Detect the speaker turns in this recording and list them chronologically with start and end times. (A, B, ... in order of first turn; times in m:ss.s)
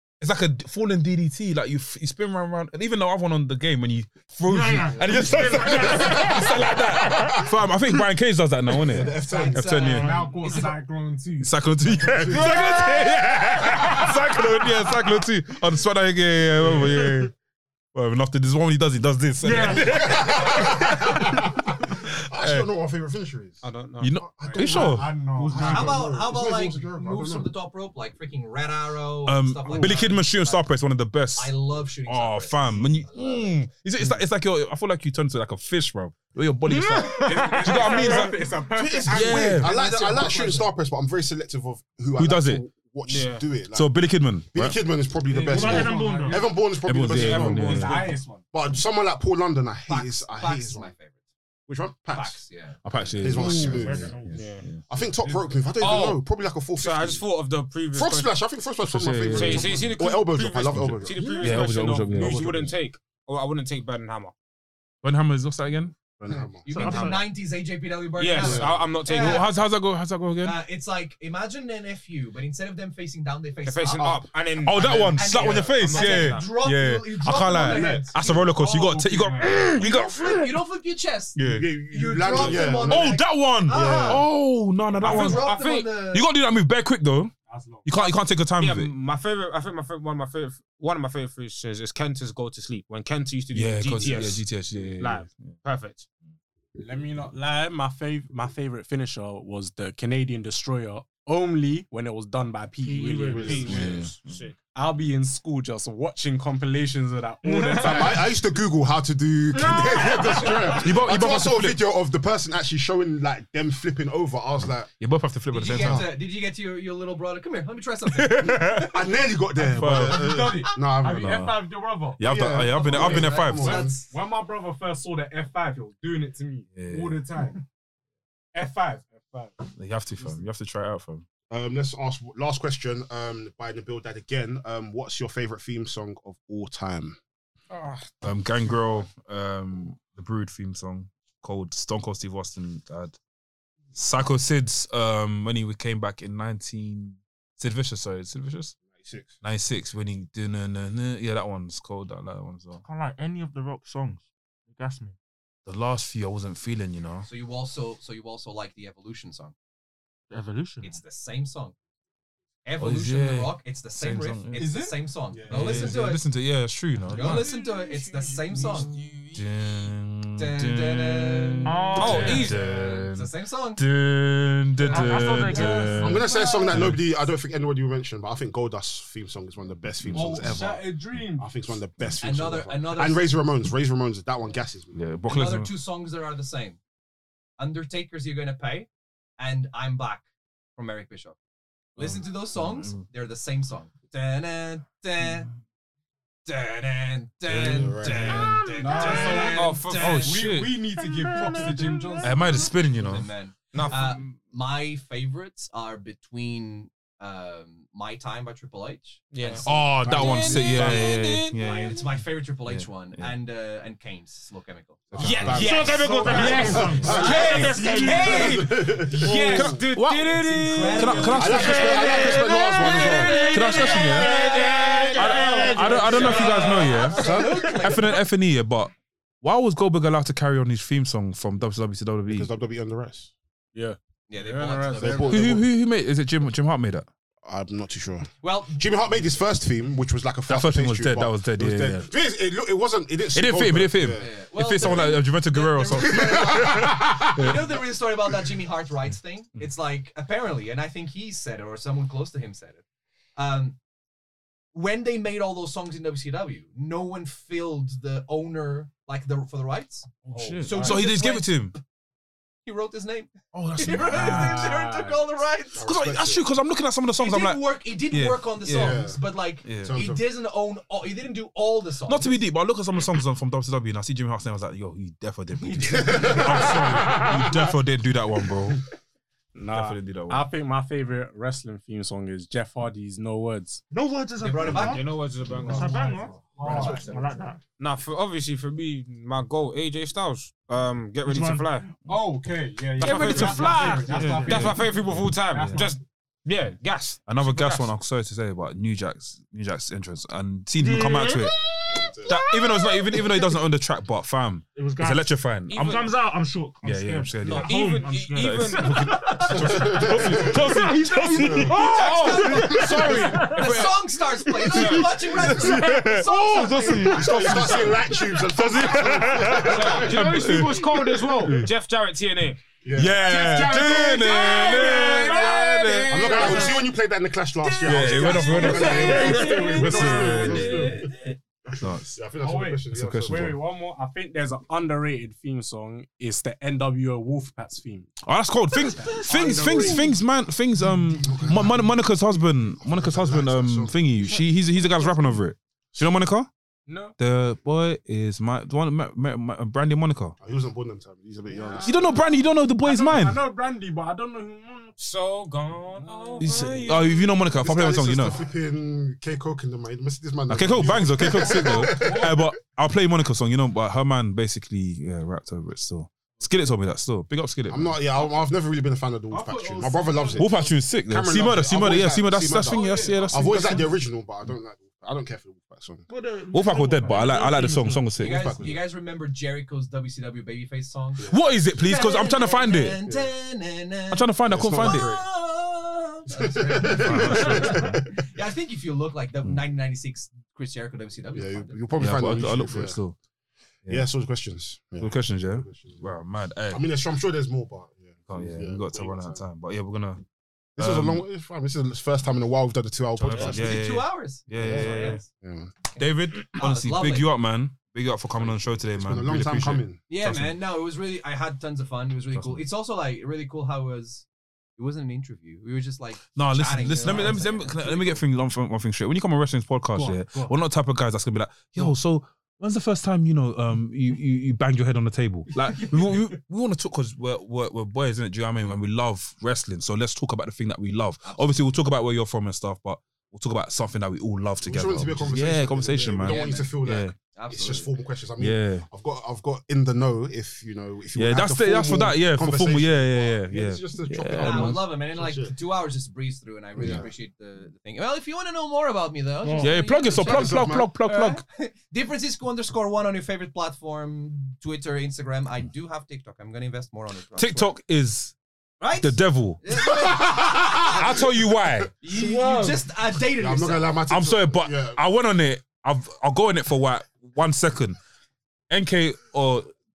0:00.2-0:10.1 A
0:04.5-0:07.4 B
0:05.7-0:06.2 C
0:08.8-0:09.9 C
0:09.2-0:10.7 D
0:09.8-0:12.7 E
0:09.8-0:10.7 B
0:11.4-0:17.3 A
0:12.1-0:13.0 C
0:12.4-0:14.0 B
0:17.9-0:21.5 A
0:19.4-0:21.1 B
0:19.8-0:23.6 C
0:22.0-0:22.7 A
0:23.6-0:24.2 F
0:24.0-0:25.1 A
0:24.4-0:24.9 C
0:24.4-0:26.2 E
0:24.7-0:26.1 B
0:25.4-0:27.5 C
0:25.6-0:30.6 D
0:29.3-0:31.5 A
0:29.7-0:30.0 B
0:31.4-0:33.6 D
0:32.1-0:39.8 A
0:36.8-0:38.4 B
0:37.1-0:40.7 E
0:38.9-0:43.9 C
0:42.2-0:42.6 A
0:43.1-0:43.5 F
0:43.7-0:44.8 A
0:44.5-0:47.9 C
0:45.3-0:46.6 E
0:45.5-0:46.5 B
0:46.8-0:48.2 A
0:47.0-0:48.1 F
0:47.3-0:48.5 E
0:48.5-0:50.9 C
0:49.9-0:51.2 D
0:51.7-0:52.4 C
0:52.1-0:52.8 D
0:52.8-0:54.8 A
0:53.2-0:57.2 C
0:53.3-0:54.5 B
0:54.4-0:54.7 F
0:55.8-0:56.2 F
0:56.8-0:58.4 F
0:57.9-1:01.3 C
0:58.8-0:59.9 A
0:59.3-1:04.3 F
1:00.8-1:02.6 A
1:02.1-1:02.7 C
1:05.0-1:06.0 A
1:06.2-1:06.9 C
1:06.6-1:09.5 D
1:06.7-1:07.2 B
1:06.8-1:07.2 F
1:08.2-1:09.4 F
1:08.4-1:08.9 C
1:09.1-1:10.6 A
1:10.4-1:14.2 D
1:13.6-1:16.5 F
1:14.0-1:14.2 C
1:14.6-1:20.6 A
1:14.9-1:18.5 D
1:17.5-1:18.5 C
1:18.6-1:19.7 E
1:19.7-1:24.3 D
1:21.4-1:21.7 A
1:21.5-1:24.3 C
1:22.3-1:25.5 A
1:25.0-1:26.3 D
1:25.0-1:25.9 F
1:26.1-1:28.9 A
1:27.5-1:28.0 E
1:28.6-1:34.5 F
1:33.5-1:35.6 A
1:34.0-1:34.3 E
1:35.0-1:36.1 F
1:36.8-1:44.0 E
1:42.8-1:43.8 B
1:43.3-1:44.6 F
1:43.5-1:44.1 C
1:43.7-1:44.5 A
1:44.7-1:48.2 E
1:47.4-1:48.2 B
1:47.8-1:54.9 C
1:49.5-1:50.8 B
1:49.8-1:50.9 D
1:50.8-1:51.8 A
1:54.9-1:56.1 A
1:55.5-1:58.8 D
1:55.7-1:56.1 C
1:58.1-1:59.1 A
1:58.6-2:01.5 C
1:59.6-2:00.5 A
1:59.9-2:02.2 E
2:01.2-2:03.8 A
2:02.2-2:04.0 C
2:02.7-2:04.2 D
2:03.0-2:07.6 E
2:06.7-2:07.2 A
2:08.5-2:09.7 E
2:09.7-2:11.3 A
2:11.5-2:17.2 C
2:17.7-2:18.2 E
2:18.2-2:23.2 A
2:18.7-2:19.0 E
2:23.9-2:28.8 A
2:28.8-2:29.4 C
2:29.4-2:32.8 A
2:32.8-2:35.2 B
2:35.7-2:37.3 A
2:37.2-2:39.5 D
2:40.3-2:41.0 B
2:40.8-2:41.8 D
2:42.6-2:46.2 D
2:42.8-2:44.7 A
2:44.6-2:45.0 E
2:45.3-2:46.1 C
2:45.5-2:47.5 A
2:47.1-2:49.4 E
2:47.1-2:48.9 D
2:49.3-2:57.0 A
2:50.4-2:53.8 D
2:51.6-2:52.6 B
2:52.0-2:52.6 F
2:52.6-2:53.0 C
2:54.8-2:57.0 E
2:54.9-2:56.3 B
2:56.0-3:05.0 C
3:00.0-3:00.6 A
3:00.1-3:01.6 E
3:02.2-3:03.3 D
3:04.9-3:05.7 A
3:05.3-3:06.8 D
3:07.6-3:08.9 D
3:09.4-3:10.2 D
3:10.8-3:11.4 D
3:12.0-3:15.5 D
3:12.0-3:13.0 A
3:16.5-3:20.4 D
3:17.5-3:19.0 A
3:17.5-3:18.6 C
3:18.8-3:22.6 E
3:19.1-3:19.4 B
3:19.3-3:20.4 F
3:19.9-3:20.8 A
3:20.9-3:22.7 B
3:22.2-3:23.3 A
3:22.8-3:29.6 D
3:23.7-3:24.3 F
3:29.3-3:31.6 F
3:29.6-3:33.3 A
3:29.7-3:31.2 C
3:31.6-3:35.1 D
3:35.1-3:39.3 C
3:35.1-3:37.1 A
3:35.2-3:45.4 F
3:35.5-3:38.7 B
3:36.2-3:38.6 D
3:37.6-3:38.4 E
3:39.0-3:39.8 E
3:39.5-3:42.4 A
3:40.3-3:48.2 D
3:41.4-3:43.4 C
3:41.4-3:48.1 B
3:43.3-3:47.0 E
3:43.5-3:44.4 A
3:45.1-3:52.5 A
3:52.3-3:53.3 C
3:53.7-3:55.4 E
3:54.3-3:55.4 D
3:55.0-3:55.7 C
3:55.3-3:57.1 A
3:57.4-4:05.0 C
3:58.4-3:58.8 D
4:00.5-4:02.1 A
4:03.3-4:07.6 A
4:04.2-4:12.8 D
4:06.0-4:07.7 C
4:13.4-4:13.8 D
4:14.7-4:21.6 D
4:20.2-4:21.7 A
4:20.7-4:21.0 B
4:22.6-4:26.1 D
4:23.5-4:24.8 A
4:24.0-4:25.2 E
4:25.7-4:26.5 C
4:25.8-4:29.1 A
4:27.2-4:32.4 D
4:28.7-4:30.2 C
4:29.6-4:30.0 A
4:32.1-4:38.8 A
4:35.7-4:37.5 B
4:36.0-4:36.5 C
4:39.6-4:43.8 E
4:39.7-4:40.5 A
4:43.9-4:47.6 B
4:44.4-4:45.0 D
4:44.7-4:46.2 F
4:45.7-4:47.4 E
4:46.6-4:47.1 D
4:47.8-4:51.9 F
4:51.2-4:51.9 B
4:52.0-4:54.8 E
4:53.0-4:57.9 F
4:53.0-4:55.0 B
4:54.1-4:55.9 A
4:55.6-4:55.9 B
4:57.3-5:01.5 A
5:00.8-5:03.6 B
5:01.9-5:02.4 C
5:02.3-5:05.9 A
5:04.7-5:18.0 B
5:05.7-5:06.1 F
5:06.8-5:07.7 A
5:07.4-5:09.4 F
5:08.5-5:13.8 A
5:09.6-5:10.8 C
5:11.3-5:11.8 C
5:11.4-5:17.9 D
5:11.7-5:13.7 F
5:14.6-5:15.2 F
5:15.5-5:21.7 A
5:17.0-5:20.2 C
5:18.6-5:21.5 B
5:19.4-5:22.6 F
5:22.8-5:23.6 C
5:23.0-5:26.8 A
5:23.2-5:26.7 E
5:24.6-5:25.6 B
5:24.8-5:25.5 F
5:26.1-5:31.1 C
5:27.7-5:31.1 E
5:27.8-5:32.2 A
5:28.6-5:30.0 F
5:28.6-5:29.7 B
5:31.7-5:33.6 C
5:32.4-5:38.1 E
5:32.9-5:33.6 A
5:38.2-5:46.5 A
5:39.0-5:40.2 E
5:39.0-5:39.3 B
5:40.8-5:42.0 C
5:42.8-5:44.0 C
5:46.9-5:47.2 E
5:47.2-5:50.4 A
5:50.4-5:52.2 C
5:51.5-5:52.3 E
5:51.8-5:53.4 A
5:52.8-5:54.9 E
5:55.0-5:57.3 F
5:56.0-5:56.9 E
5:56.4-5:58.4 A
5:57.5-6:02.5 C
6:00.5-6:08.0 A
6:01.2-6:02.4 E
6:07.7-6:16.1 C
6:09.3-6:10.7 E
6:10.4-6:13.9 A
6:12.6-6:13.9 E
6:16.1-6:18.1 B
6:16.5-6:18.5 A
6:18.2-6:31.8 D
6:18.2-6:18.8 C
6:21.2-6:21.4 C
6:21.3-6:23.0 A
6:23.0-6:23.3 C
6:24.1-6:25.1 A
6:24.5-6:25.3 C
6:26.3-6:28.1 C
6:27.0-6:27.9 A
6:27.7-6:27.9 B
6:31.3-6:33.0 C
6:32.0-6:33.2 A
6:33.9-6:36.1 C
6:35.0-6:36.8 A
6:36.7-6:39.4 C
6:38.3-6:40.2 A
6:40.8-6:41.2 A
6:40.8-6:43.8 C
6:43.2-6:45.3 A
6:43.3-6:45.3 D
6:44.6-6:45.7 C
6:45.9-6:47.3 D
6:46.0-6:50.6 A
6:48.4-6:50.0 C
6:50.1-6:54.3 D
6:52.3-6:52.6 A
6:54.8-6:58.2 D
6:56.4-7:17.2 A
6:59.9-7:00.5 E
7:11.2-7:11.7 D
7:14.6-7:25.6 C
7:16.2-7:16.7 D
7:17.4-7:17.9 D
7:18.4-7:18.9 A
7:21.1-7:24.8 A
7:24.4-7:37.8 D
7:26.8-7:27.1 C
7:26.8-7:27.0 A
7:29.4-7:29.8 B
7:29.6-7:31.4 A
7:30.1-7:30.9 C
7:37.4-7:38.4 A
7:38.8-7:41.0 D
7:39.0-7:42.0 A
7:39.8-7:41.4 C
7:42.0-7:44.0 D
7:42.2-7:42.7 E
7:43.2-7:45.0 C
7:44.1-7:48.0 A
7:48.7-7:49.7 A